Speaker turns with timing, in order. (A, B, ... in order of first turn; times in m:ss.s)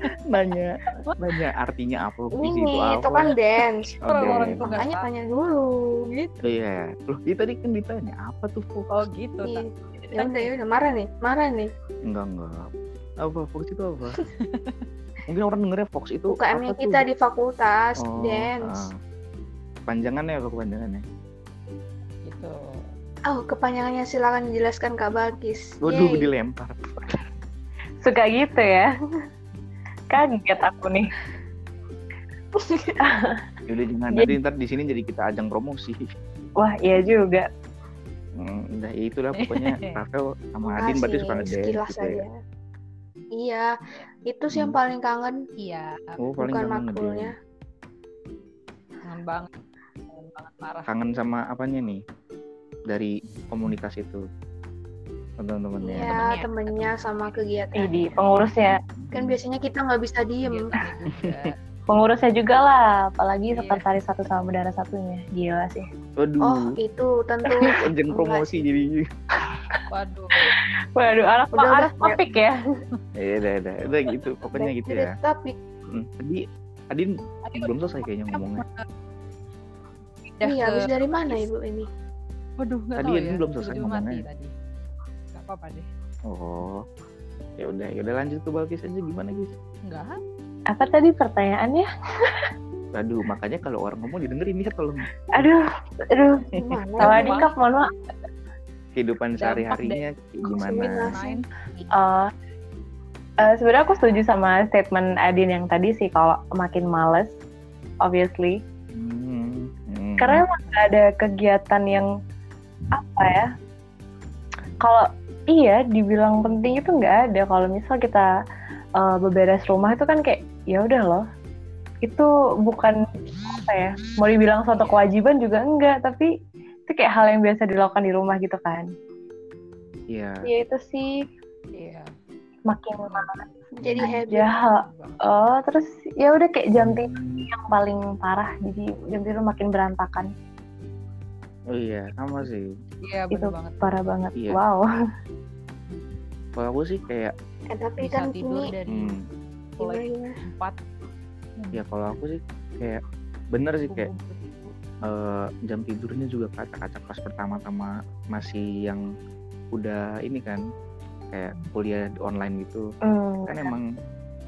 0:00.3-0:03.3 A
0:02.4-0:06.1 B
0:04.0-0:04.7 A
0:04.0-0:05.0 C
0:06.0-0:06.4 C
0:06.4-0:08.9 A
0:08.9-0:10.5 C
0:09.4-0:11.7 B
0:12.1-0:12.7 A
0:13.2-0:14.2 A
0:14.4-0:14.8 C
0:15.3-0:17.0 A
0:16.3-0:18.9 B
0:18.0-0:18.9 A
0:19.9-0:21.0 A
0:22.2-0:22.8 C
0:23.3-0:26.3 B
0:25.8-0:26.8 A
0:28.0-0:28.9 D
0:30.1-0:31.1 D
0:32.6-0:33.0 B
0:33.0-0:33.4 D
0:33.7-0:36.0 A
0:36.6-0:37.5 D
0:38.4-0:42.2 A
0:39.4-0:39.9 C
0:40.7-0:42.3 B
0:43.4-0:43.7 B
0:44.2-0:45.4 B
0:44.5-0:44.8 A
0:45.6-0:46.2 C
0:46.2-0:47.3 A
0:46.4-0:47.3 B
0:49.0-0:49.5 C
0:50.1-0:50.9 C
0:50.9-0:52.0 A
0:52.9-0:54.2 A
0:55.4-0:56.2 A
0:55.8-0:57.9 B
0:56.0-0:57.9 C
0:57.8-0:58.8 D
0:59.1-1:00.7 B
1:00.4-1:01.6 C
1:01.1-1:01.5 A
1:01.9-1:05.8 D
1:03.5-1:03.8 C
1:06.2-1:06.6 A
1:06.4-1:08.7 B
1:07.6-1:09.0 A
1:09.9-1:10.5 C
1:10.4-1:12.6 D
1:11.5-1:12.2 B
1:13.1-1:15.1 A
1:14.5-1:15.6 B
1:15.9-1:18.6 A
1:17.4-1:17.8 C
1:18.3-1:18.9 C
1:20.4-1:21.5 C
1:20.4-1:21.9 B
1:22.6-1:24.5 C
1:23.0-1:24.2 A
1:25.3-1:25.9 C
1:26.3-1:26.8 A
1:27.6-1:29.5 A
1:29.8-1:30.2 C
1:30.7-1:32.5 D
1:32.9-1:35.5 A
1:35.4-1:36.4 D
1:36.6-1:37.4 B
1:37.0-1:37.5 C
1:37.0-1:37.9 D
1:39.0-1:41.1 A
1:39.4-1:40.0 C
1:40.4-1:41.2 B
1:40.7-1:41.9 C
1:41.9-1:42.3 D
1:43.4-1:47.3 D
1:48.0-1:48.6 D
1:48.9-1:50.4 A
1:50.2-1:52.1 D
1:50.6-1:50.9 C
1:52.9-1:53.5 D
1:54.8-1:58.3 D
1:59.0-2:01.2 D
2:02.0-2:06.3 D
2:04.7-2:05.1 C
2:06.9-2:08.9 D
2:10.1-2:10.4 A
2:10.4-2:11.2 D
2:11.7-2:12.1 C
2:12.7-2:13.4 D
2:13.1-2:13.6 C
2:13.8-2:14.5 B
2:13.8-2:14.1 A
2:14.0-2:20.3 D
2:14.6-2:15.2 C
2:16.8-2:17.5 A
2:21.7-2:22.6 A
2:23.0-2:24.0 C
2:23.3-2:24.8 D
2:26.6-2:27.3 A
2:27.7-2:28.7 B
2:28.0-2:29.2 C
2:28.9-2:29.2 A
2:29.8-2:30.3 B
2:29.8-2:30.8 C
2:31.6-2:31.8 C
2:31.7-2:33.0 A
2:33.5-2:34.1 A
2:33.9-2:34.8 C
2:35.0-2:39.0 A
2:39.7-2:40.6 A
2:41.3-2:42.8 A
2:43.0-2:43.6 D
2:43.5-2:43.8 A